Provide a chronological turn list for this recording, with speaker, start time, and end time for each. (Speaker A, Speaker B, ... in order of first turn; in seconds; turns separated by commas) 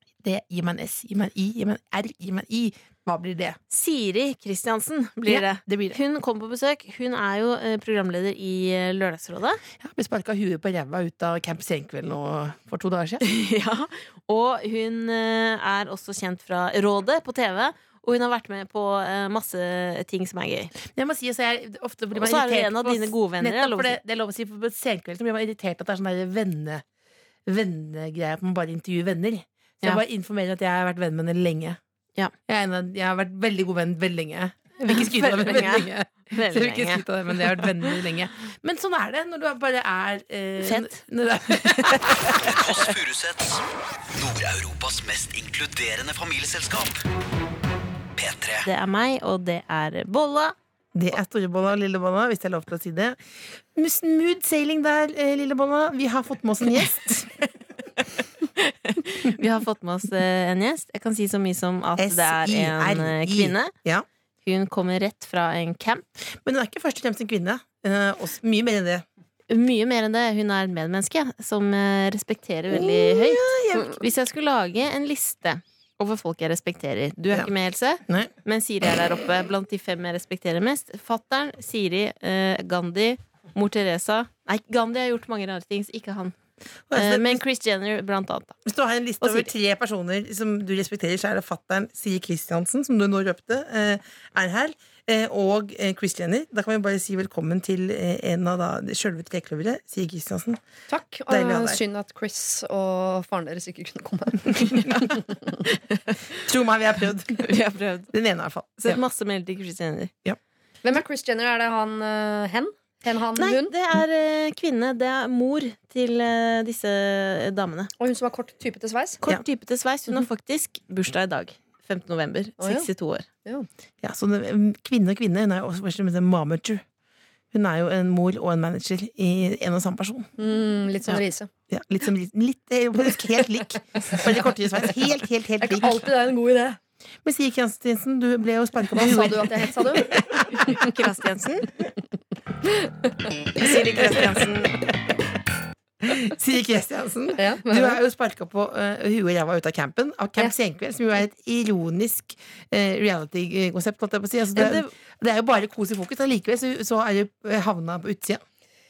Speaker A: 0.2-3.6, Speaker B: 3.7-9.6, Speaker A: 5.3-6.0, Speaker A: 9.8-13.2, Speaker B: 13.2-20.7, Speaker A: 20.9-26.8, Speaker B: 22.1-24.0, Speaker A: 27.5-31.8, Speaker A: 32.5-42.4, Speaker B: 34.9-37.9, Speaker B: 40.6-41.0, Speaker B: 41.8-42.3, Speaker C: 42.4-47.0, Speaker C: 48.1-48.7, Speaker B: 48.6-50.5, Speaker A: 51.0-53.2, Speaker A: 53.7-57.3, Speaker B: 58.6-63.7, Speaker A: 62.0-64.1, Speaker B: 64.4-66.1, Speaker A: 66.3-69.0, Speaker B: 69.5-86.3, Speaker A: 72.7-74.0, Speaker A: 78.1-78.3, Speaker A: 86.9-87.4, Speaker B: 86.9-88.6, Speaker A: 88.6-100.6, Speaker B: 89.2-89.5, Speaker D: 100.9-105.5, Speaker A: 101.3-101.8, Speaker B: 105.7-106.2, Speaker A: 106.5-107.5, Speaker B: 107.4-108.1, Speaker A: 108.1-109.0, Speaker B: 108.8-110.1, Speaker D: 110.8-113.7, Speaker B: 113.4-117.9, Speaker D: 118.0-119.2, Speaker B: 119.2-123.3, Speaker D: 122.6-122.9, Speaker A: 124.0-126.8, Speaker A: 127.5-130.3, Speaker D: 130.4-131.5, Speaker A: 131.7-136.0, Speaker D: 135.6-136.8, Speaker A: 137.2-140.4, Speaker D: 138.9-140.2, Speaker B: 140.6-141.7, Speaker B: 143.6-144.8, Speaker A: 143.8-144.4, Speaker A: 146.0-158.4, Speaker D: 147.4-148.0, Speaker B: 154.5-154.9